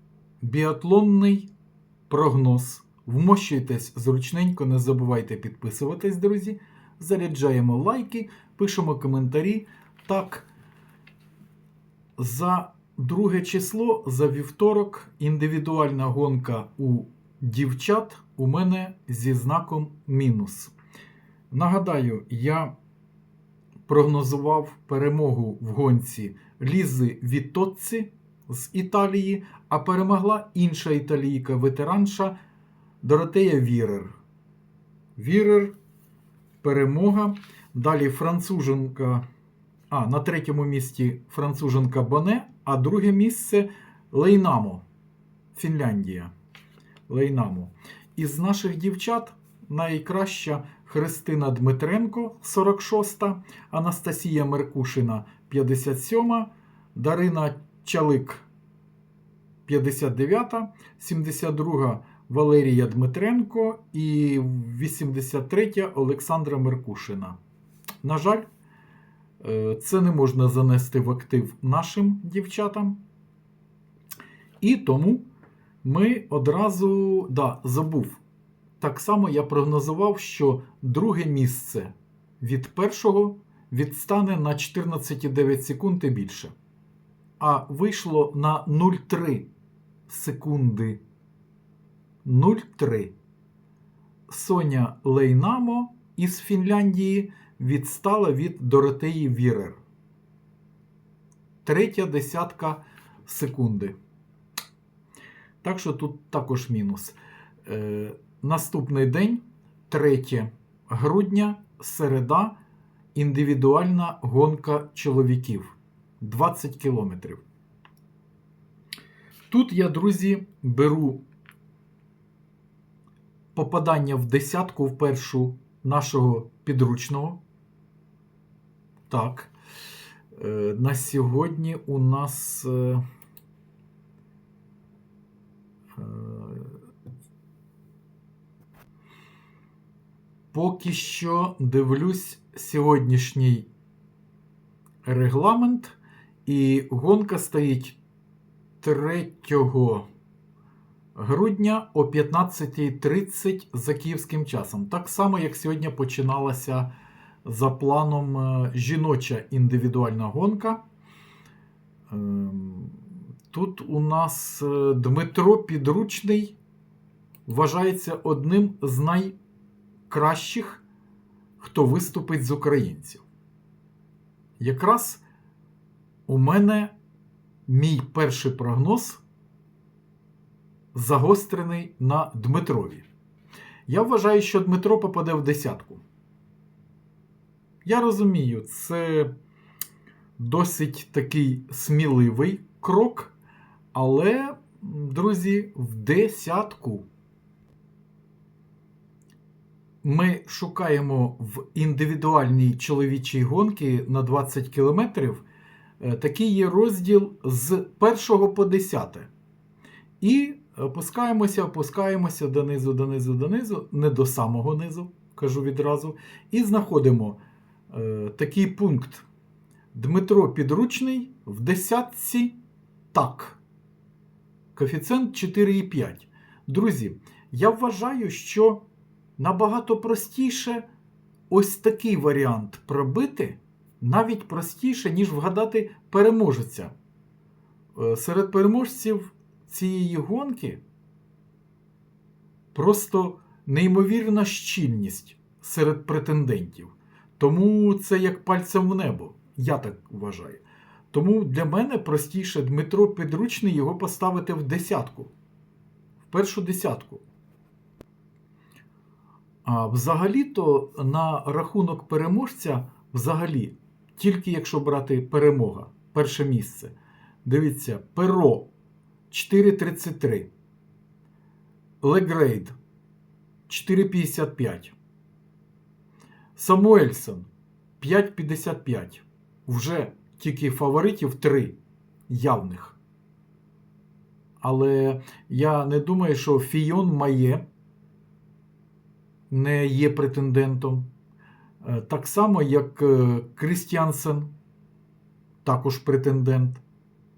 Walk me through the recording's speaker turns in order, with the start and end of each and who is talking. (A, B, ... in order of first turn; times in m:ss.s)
0:00.4-0:01.5 A
0:02.1-0:10.5 A
0:12.2-0:20.7 A
0:21.5-0:22.7 A
0:23.9-0:32.3 A
0:33.0-0:34.2 A
0:35.2-0:35.7 A
0:36.6-0:39.2 A
0:39.9-0:44.8 A
0:45.5-0:46.3 A
0:47.1-0:58.4 A
0:59.7-1:07.4 A
1:08.0-1:08.4 A
1:09.4-1:13.0 A
1:14.6-1:15.2 A
1:15.8-1:18.2 A
1:18.8-1:26.5 A
1:27.4-1:29.5 A
1:30.1-1:31.0 A
1:32.2-1:33.1 A
1:34.3-1:39.8 A
1:41.6-1:43.9 A
1:45.6-1:52.6 A
1:53.1-1:57.4 A
1:59.5-2:01.2 A
2:03.5-2:07.4 A
2:09.1-2:09.5 A
2:10.3-2:13.0 A
2:16.0-2:16.8 A
2:20.5-2:23.7 A
2:25.0-2:28.0 A
2:28.8-2:30.0 A
2:31.1-2:36.9 A
2:37.4-2:40.8 A
2:42.1-2:43.0 A
2:43.5-2:46.6 A
2:47.4-2:49.3 A
2:50.1-2:50.8 A
2:51.6-2:53.2 A
2:54.6-2:55.2 A
2:56.3-2:56.9 A
2:57.7-2:59.2 A
3:00.9-3:03.0 A
3:03.9-3:06.0 A
3:07.8-3:09.3 A
3:10.4-3:13.3 A
3:13.9-3:17.0 A
3:20.0-3:25.4 A
3:26.0-3:29.3 A
3:30.2-3:37.4 A
3:37.9-3:39.2 A
3:39.9-3:42.6 A
3:43.1-3:43.6 A
3:44.7-3:48.8 A
3:49.4-3:50.8 A
3:51.5-3:56.9 A
3:57.9-4:00.8 A
4:02.7-4:15.3 A
4:16.3-4:17.2 A
4:19.6-4:28.7 A
4:29.3-4:30.5 A
4:32.0-4:32.7 A
4:33.7-4:34.9 A
4:36.6-4:37.5 A
4:38.0-4:41.8 A
4:42.3-4:43.0 A
4:44.6-4:47.6 A
4:49.5-4:51.1 A
4:51.8-4:54.5 A
4:55.6-4:56.8 A